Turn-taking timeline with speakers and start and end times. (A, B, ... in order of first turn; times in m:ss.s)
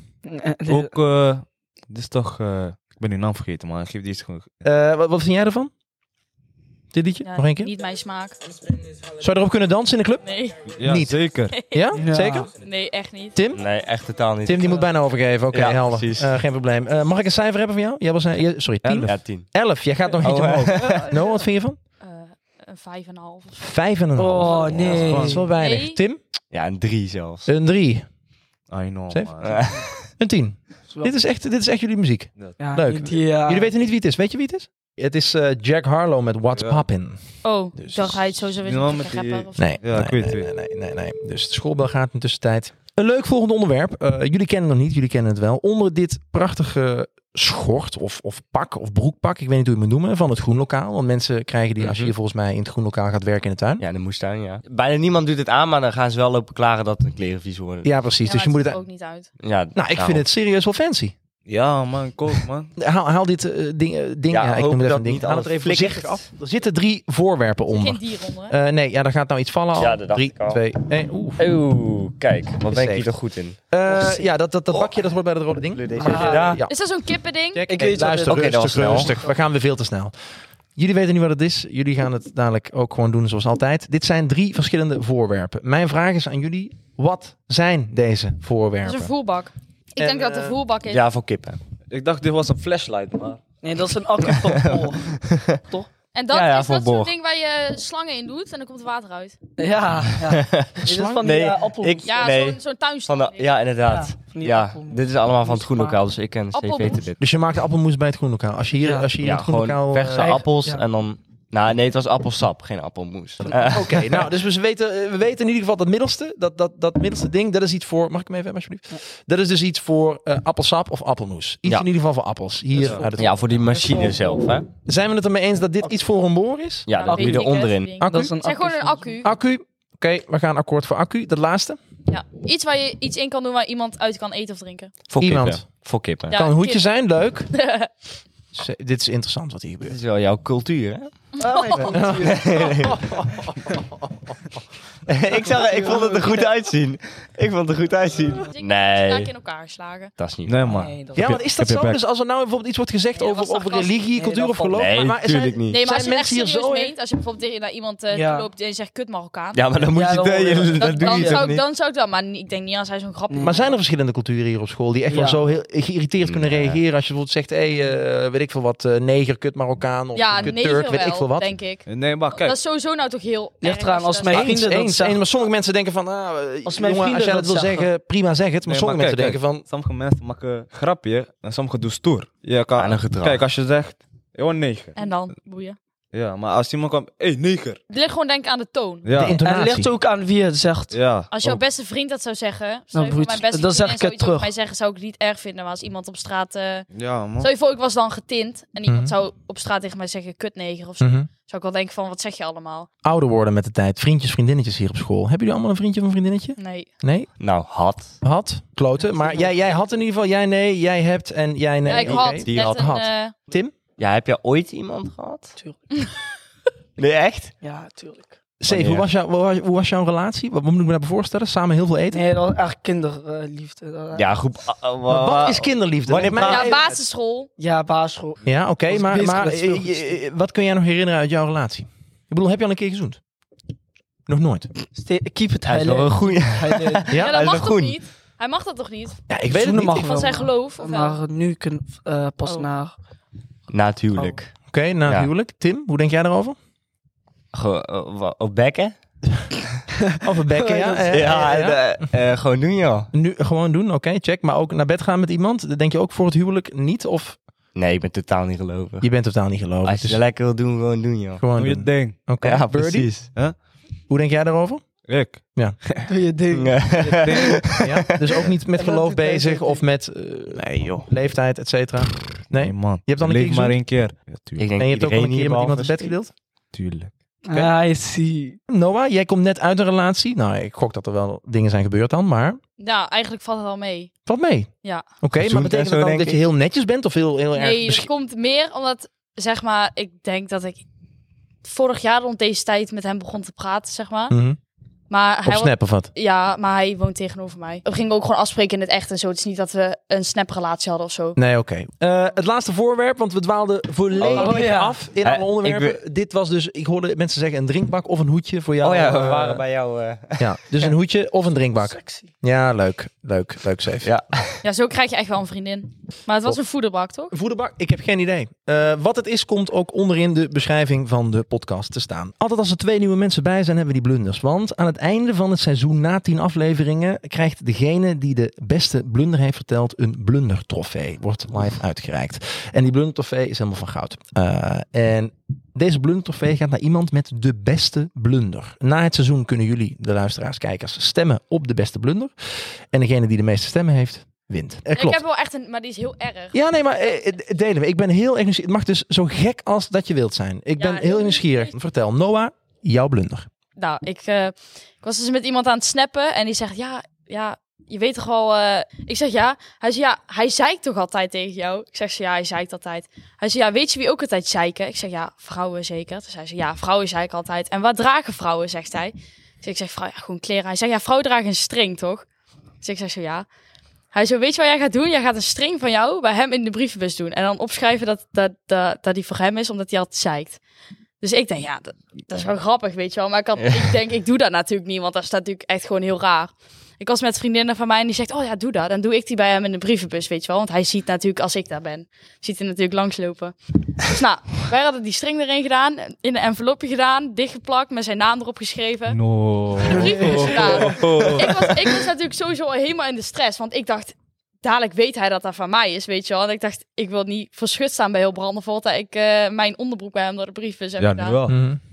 0:00.2-0:00.9 A
0:00.7-0:04.5 B
0:04.6-0:05.7 C
0:06.9-0:07.7 C
0:07.2-0:08.4 D
0:09.1-0:10.2 C
0:10.2-0:10.6 D
0:10.7-0:11.6 B
0:10.8-0:11.2 C
0:11.5-0:12.0 D
0:11.7-0:12.5 C
0:11.9-0:12.5 A
0:12.5-0:13.4 D
0:13.4-0:13.6 C
0:13.5-0:14.9 E
0:14.4-0:21.8 C
0:15.5-0:16.4 E
0:18.8-0:19.2 B
0:19.1-0:19.5 E
0:20.2-0:21.1 E
0:22.0-0:23.7 D
0:23.6-0:26.2 C
0:24.2-0:25.5 A
0:24.4-0:25.0 D
0:24.8-0:25.5 B
0:25.5-0:26.0 D
0:26.5-0:27.5 E
0:27.5-0:28.0 C
0:28.7-0:29.8 B
0:29.4-0:29.9 E
0:30.2-0:37.2 C
0:32.6-0:33.7 A
0:36.6-0:36.8 B
0:37.4-0:39.7 D
0:37.8-0:38.2 C
0:38.6-0:40.5 B
0:39.6-0:53.8 C
0:51.8-0:52.1 E
0:53.8-0:58.0 E
0:57.8-0:58.8 C
0:58.2-0:59.3 D
0:59.4-1:00.3 E
0:59.8-1:01.1 C
1:01.5-1:02.7 B
1:02.8-1:11.4 C
1:04.3-1:06.3 E
1:07.7-1:08.6 D
1:09.8-1:10.6 E
1:11.4-1:13.6 E
1:12.7-1:13.1 C
1:13.7-1:16.9 C
1:14.7-1:15.0 E
1:15.6-1:16.6 E
1:16.0-1:16.6 A
1:16.7-1:17.6 D
1:17.5-1:20.2 C
1:17.7-1:19.2 A
1:18.3-1:19.2 E
1:20.8-1:29.1 C
1:28.8-1:31.0 D
1:30.0-1:30.6 C
1:30.9-1:31.6 E
1:31.9-1:33.4 B
1:33.6-1:35.9 A
1:34.2-1:35.5 E
1:36.1-1:39.4 D
1:36.3-1:37.1 E
1:39.6-1:42.1 A
1:40.3-1:47.2 E
1:40.8-1:41.3 C
1:42.0-1:43.7 D
1:43.9-1:46.0 A
1:46.5-1:47.1 D
1:47.2-1:50.4 C
1:48.8-1:49.1 A
1:49.2-1:54.3 E
1:53.6-2:03.5 C
2:02.8-2:03.1 B
2:03.2-2:04.7 E
2:04.9-2:06.9 C
2:06.9-2:08.0 E
2:06.9-2:09.3 D
2:07.1-2:09.2 A
2:08.0-2:08.3 C
2:09.2-2:11.8 C
2:12.1-2:14.9 D
2:15.1-2:16.4 E
2:15.2-2:15.7 C
2:16.3-2:16.9 D
2:16.3-2:17.5 C
2:17.5-2:17.9 D
2:18.5-2:20.0 C
2:19.8-2:21.1 E
2:21.4-2:22.0 D
2:21.4-2:22.5 A
2:21.9-2:23.5 C
2:22.1-2:23.0 E
2:25.1-2:29.3 E
2:25.4-2:26.5 A
2:28.5-2:30.1 D
2:30.2-2:30.9 E
2:30.5-2:32.0 B
2:30.7-2:31.4 A
2:31.2-2:36.9 C
2:33.2-2:34.0 D
2:34.1-2:35.0 A
2:34.7-2:35.8 E
2:35.7-2:39.9 D
2:38.1-2:38.5 A
2:39.5-2:41.6 E
2:39.9-2:41.4 A
2:40.8-2:43.8 D
2:43.4-2:51.5 C
2:45.1-2:45.4 A
2:46.2-2:46.8 E
2:50.1-2:54.6 D
2:51.9-2:52.6 B
2:53.6-2:55.2 A
2:54.3-2:59.6 C
2:56.6-2:57.9 A
2:58.7-3:05.0 B
3:02.8-3:03.4 E
3:05.0-3:05.8 D
3:06.1-3:07.8 B
3:07.9-3:09.1 D
3:09.0-3:09.4 B
3:09.1-3:09.9 C
3:09.4-3:11.0 A
3:10.9-3:11.6 B
3:11.3-3:22.9 D
3:12.9-3:14.5 A
3:16.9-3:17.5 B
3:18.9-3:19.1 C
3:21.0-3:21.3 C
3:23.0-3:27.3 C
3:26.6-3:26.9 D
3:27.4-3:28.2 E
3:28.2-3:33.7 C
3:29.1-3:29.4 A
3:31.8-3:33.3 D
3:32.0-3:32.9 E
3:34.0-3:35.6 E
3:35.6-3:36.0 A
3:37.0-3:37.5 E
3:37.6-3:38.4 A
3:38.6-3:42.2 C
3:38.7-3:39.1 E
3:42.1-3:44.3 A
3:44.1-3:47.0 E
3:45.1-3:46.8 C
3:46.4-3:47.5 D
3:47.6-3:50.0 A
3:48.4-3:53.2 C
3:54.3-3:54.7 C
3:54.9-3:57.1 A
3:55.7-3:58.0 E
3:57.1-3:57.4 C
3:57.1-4:01.2 D
3:59.3-4:00.0 C
3:59.5-4:03.0 A
4:02.4-4:02.7 D
4:03.7-4:05.3 E
4:04.7-4:06.6 C
4:07.5-4:08.9 E
4:10.2-4:11.8 C
4:10.5-4:11.3 A
4:11.1-4:13.1 E
4:13.1-4:17.4 C
4:17.8-4:19.1 E
4:19.0-4:20.2 C
4:19.8-4:21.4 E
4:21.4-4:23.3 C
4:21.5-4:22.3 B
4:22.4-4:23.3 E
4:24.1-4:25.0 C
4:25.1-4:26.1 B
4:26.1-4:27.2 A
4:26.5-4:28.5 E
4:27.2-4:27.8 B
4:27.8-4:33.8 C
4:28.7-4:29.8 A
4:30.5-4:31.1 B
4:32.5-4:34.8 B
4:34.6-4:36.2 E
4:34.8-4:36.3 C
4:36.7-4:37.1 B
4:37.4-4:38.6 A
4:38.7-4:42.6 C
4:42.8-4:44.2 D
4:44.3-4:44.7 C
4:45.2-4:48.1 C
4:45.4-4:46.4 E
4:47.5-4:50.8 D
4:51.6-4:54.4 D
4:54.3-4:54.6 C
4:55.1-5:01.4 D
4:55.4-4:56.1 C
5:01.4-5:09.6 C
5:04.2-5:04.6 E
5:04.3-5:04.6 D
5:04.4-5:05.0 A
5:05.2-5:06.0 E
5:08.8-5:10.9 E
5:10.4-5:14.1 C
5:11.9-5:12.3 A
5:14.0-5:14.6 E
5:14.6-5:17.3 D
5:17.3-5:42.3 C
5:42.9-5:45.2 C
5:45.0-5:46.6 D
5:46.5-5:53.5 C
5:50.8-5:51.7 D
5:53.8-6:12.2 D
6:12.8-6:13.5 D
6:14.1-6:20.6 D
6:21.2-6:39.2 D
6:39.1-6:42.0 B
6:39.7-6:51.4 D
6:39.9-6:41.0 A
6:51.0-6:51.6 B
6:51.5-6:51.8 C